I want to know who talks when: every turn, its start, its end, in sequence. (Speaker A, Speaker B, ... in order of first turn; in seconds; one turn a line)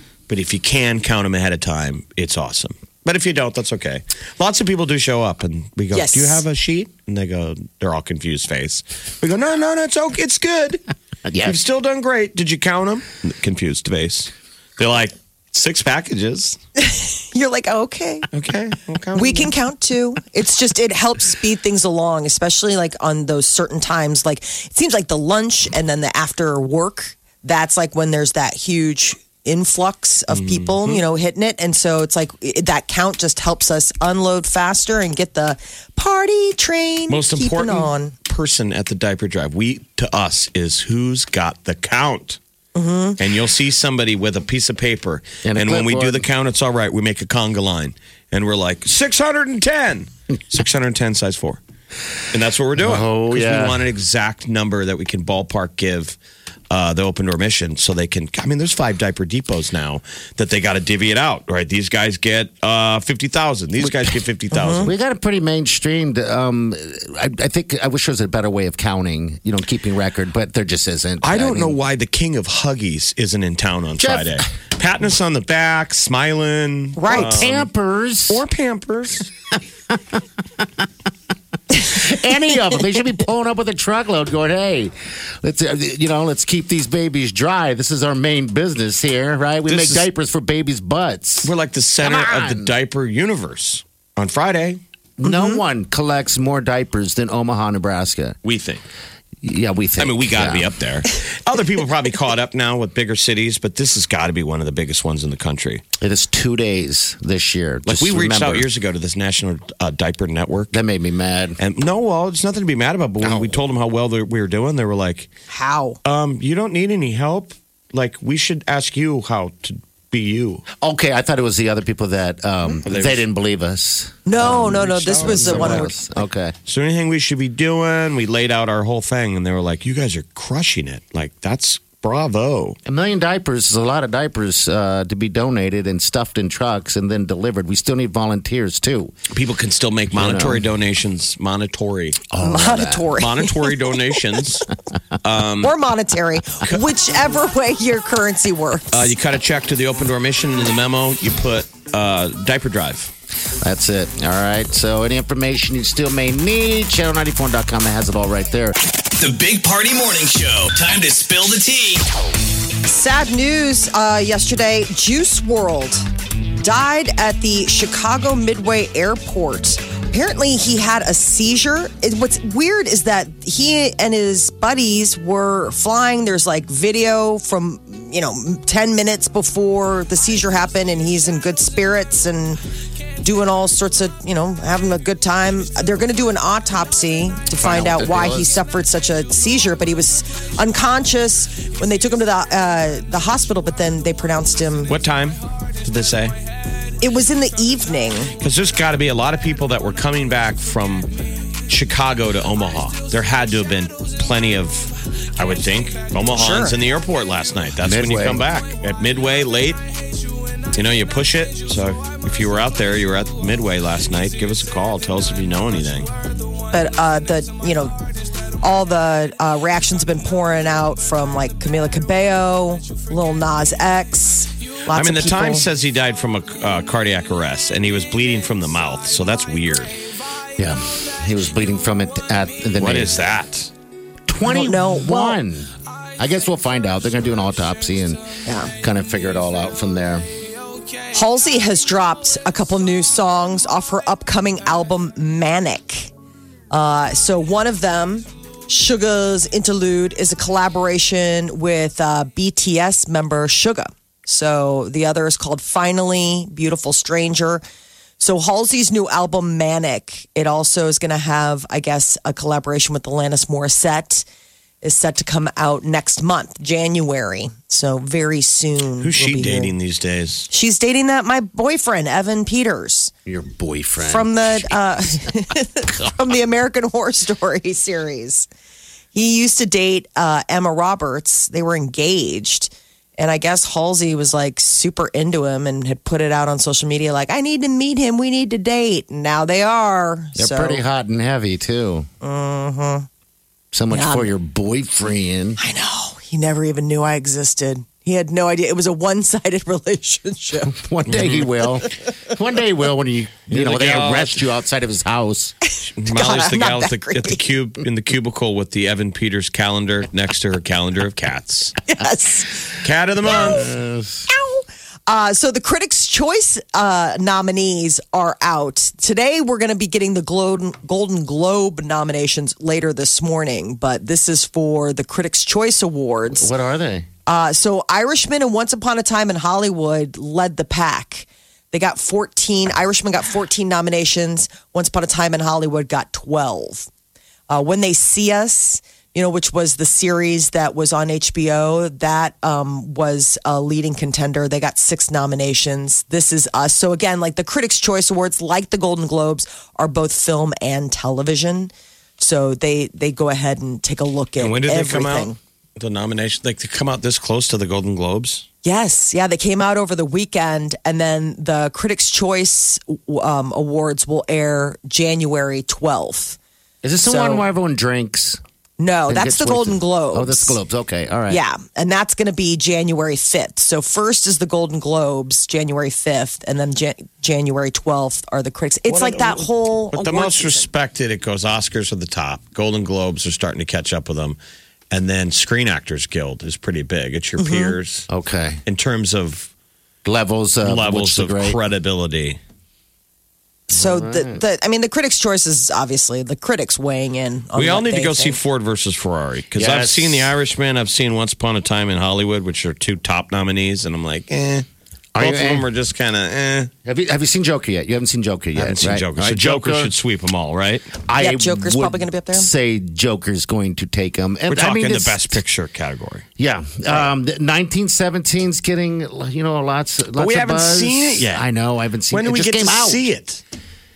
Speaker A: 0.3-10.8
Speaker B: 5.9-6.4
Speaker C: 11.2-11.6
Speaker A: 11.4-16.6
Speaker B: 16.8-18.3
Speaker A: 18.3-19.5
Speaker B: 19.1-38.1
Speaker A: 30.3-31.0
Speaker A: 37.1-42.4
Speaker B: 42.8-43.2
Speaker A: 43.2-51.6
Speaker C: 45.4-46.2
Speaker A: 52.3-56.2
Speaker C: 52.8-53.9
Speaker A: 56.7-64.9
Speaker C: 63.8-64.2
Speaker B: 64.5-64.9
Speaker C: 64.8-71.8
Speaker A: 71.2-77.7
Speaker C: 74.0-74.4
Speaker B: 77.0-77.5
Speaker C: 77.1-78.4
Speaker A: 78.3-79.3
Speaker C: 79.9-80.6
Speaker C: 81.7-92.7
Speaker A: 89.7-90.1
Speaker A: 91.4-94.8
Speaker C: 95.2-98.4
Speaker B: 95.2-95.6
Speaker A: 98.4-98.8
Speaker C: 99.4-100.7
Speaker A: 100.0-105.8
Speaker C: 106.0-108.7
Speaker A: 107.9-110.7
Speaker C: 110.7-111.6
Speaker A: 111.6-115.3
Speaker C: 113.2-113.6
Speaker B: 115.5-116.0
Speaker A: 116.0-120.7
Speaker C: 120.8-126.5
Speaker A: 122.8-123.2
Speaker B: 124.2-125.9
Speaker A: 124.4-125.9
Speaker A: 126.7-132.8
Speaker C: 132.8-139.1
Speaker A: 139.3-142.3
Speaker C: 140.1-140.7
Speaker C: 142.3-143.1
Speaker B: 142.4-143.8
Speaker A: 143.2-144.7
Speaker A: 145.2-145.7
Speaker B: 145.6-149.1
Speaker A: 146.6-146.8
Speaker A: 148.9-153.1
Speaker C: 153.6-158.8
Speaker D: 159.2-162.0
Speaker B: 162.8-166.1
Speaker B: 166.6-182.6
Speaker B: 183.2-194.9
Speaker C: 187.6-188.6
Speaker A: 194.9-196.3
Speaker B: 197.0-198.3
Speaker A: 198.4-201.1
Speaker A: 201.7-209.8
Speaker B: 206.3-206.8
Speaker C: 207.8-208.4
Speaker A: 210.7-216.1
Speaker B: 216.7-217.9
Speaker B: 218.6-225.7
Speaker A: 224.9-229.9
Speaker C: 230.6-233.1
Speaker A: 232.8-233.7
Speaker C: 234.3-238.2
Speaker B: 234.4-235.4
Speaker B: 238.4-238.7
Speaker C: 238.8-240.2
Speaker B: 241.1-246.1
Speaker B: 246.7-257.6
Speaker B: 258.2-264.2
Speaker B: 264.8-269.7
Speaker A: 269.0-270.5
Speaker B: 270.5-273.1
Speaker C: 273.2-275.0
Speaker B: 274.0-278.5
Speaker B: 279.1-290.8
Speaker C: 290.4-292.1
Speaker B: 292.2-293.1
Speaker C: 293.7-295.6
Speaker B: 293.9-294.3
Speaker B: 295.6-300.7
Speaker C: 300.6-305.5
Speaker A: 301.1-301.4
Speaker A: 303.5-304.4
Speaker B: 305.7-307.4
Speaker A: 306.0-311.8
Speaker B: 311.9-312.6
Speaker A: 312.8-313.7
Speaker B: 313.2-313.7
Speaker C: 313.2-314.3
Speaker B: 314.3-326.5
Speaker C: 326.3-327.1
Speaker B: 327.2-336.9
Speaker B: 337.5-355.4
Speaker A: 354.4-358.4
Speaker B: 358.6-366.4
Speaker C: 366.8-368.4
Speaker B: 367.0-367.5
Speaker B: 368.8-370.6
Speaker C: 369.1-371.4
Speaker B: 371.3-380.6
Speaker A: 378.9-384.4
Speaker A: 384.9-388.1
Speaker B: 387.4-387.8
Speaker C: 388.1-388.6
Speaker A: 388.6-389.5
Speaker C: 390.0-391.6
Speaker A: 390.6-392.4
Speaker B: 393.7-398.4
Speaker C: 393.7-394.4
Speaker A: 397.5-406.7
Speaker C: 399.6-400.3
Speaker C: 405.1-405.7
Speaker C: 406.8-409.9
Speaker A: 408.6-410.9
Speaker C: 411.0-415.3
Speaker B: 411.1-412.5
Speaker A: 414.5-416.2
Speaker C: 416.4-423.0
Speaker A: 420.1-421.4
Speaker A: 422.1-423.4